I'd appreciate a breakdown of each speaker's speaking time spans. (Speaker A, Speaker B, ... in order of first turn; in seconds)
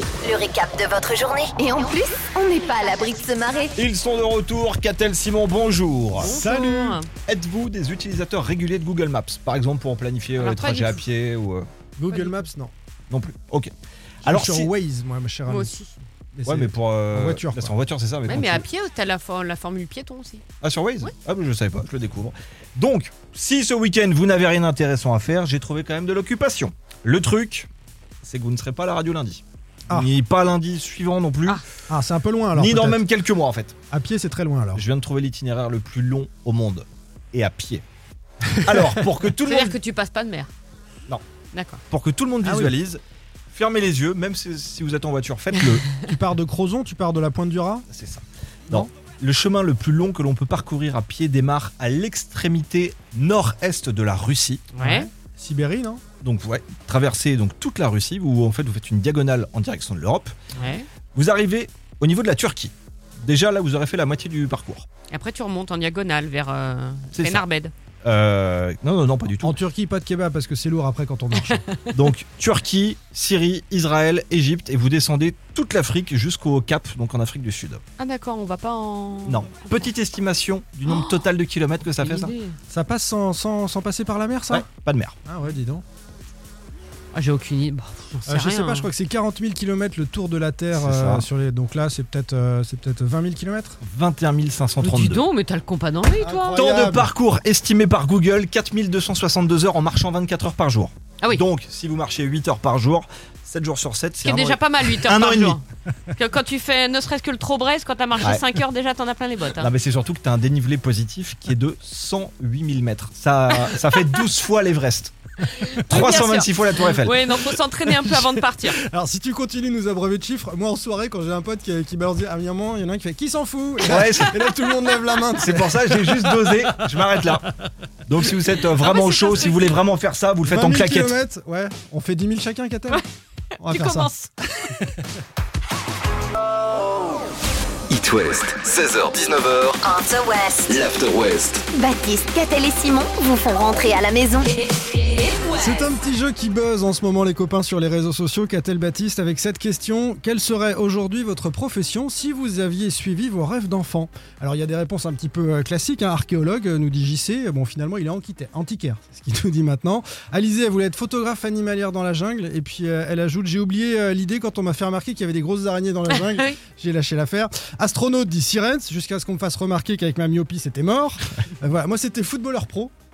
Speaker A: 0.2-3.8, 139.8-140.8, 141.7-144.5
Speaker B: 3.8-6.3, 7.2-11.7, 13.1-13.7, 14.2-14.7, 16.4-18.6, 20.6-27.7, 28.2-31.6, 32.5-33.8, 34.7-37.8, 38.6-39.8, 41.9-45.9, 47.9-54.7, 56.2-60.3, 61.1-64.9, 67.1-67.4, 68.0-69.6, 71.9-77.8, 79.3-82.3, 84.5-85.2, 90.7-91.3, 93.8-95.2, 96.5-105.6, 108.2-108.5, 109.6-115.1, 115.9-117.2, 123.9-124.5, 125.3-127.5, 128.1-131.2
Speaker C: 6.2-7.1, 10.4-11.0, 12.1-12.4, 15.4-15.9, 18.2-20.4, 39.4-40.5, 41.5-41.8, 54.7-55.1, 60.5-60.9, 65.1-67.7, 78.0-79.9, 80.9-81.3, 82.0-82.6, 87.1-88.9, 94.8-96.6, 104.2-109.7, 113.6-114.0, 115.6-118.8, 128.8-129.8, 133.6-134.8, 166.1-166.6
Speaker D: 6.2-7.0, 12.0-12.7, 14.2-15.8, 16.3-17.7, 31.9-33.0, 33.9-34.8, 42.4-42.7, 46.0-47.9, 54.8-56.0, 69.4-71.6, 82.7-84.7, 85.3-85.8, 88.3-93.8, 96.2-97.1, 117.9-127.5, 130.4-133.0, 133.6-134.1, 134.6-135.1, 145.5-172.9
Speaker E: 137.9-139.8, 140.7-141.6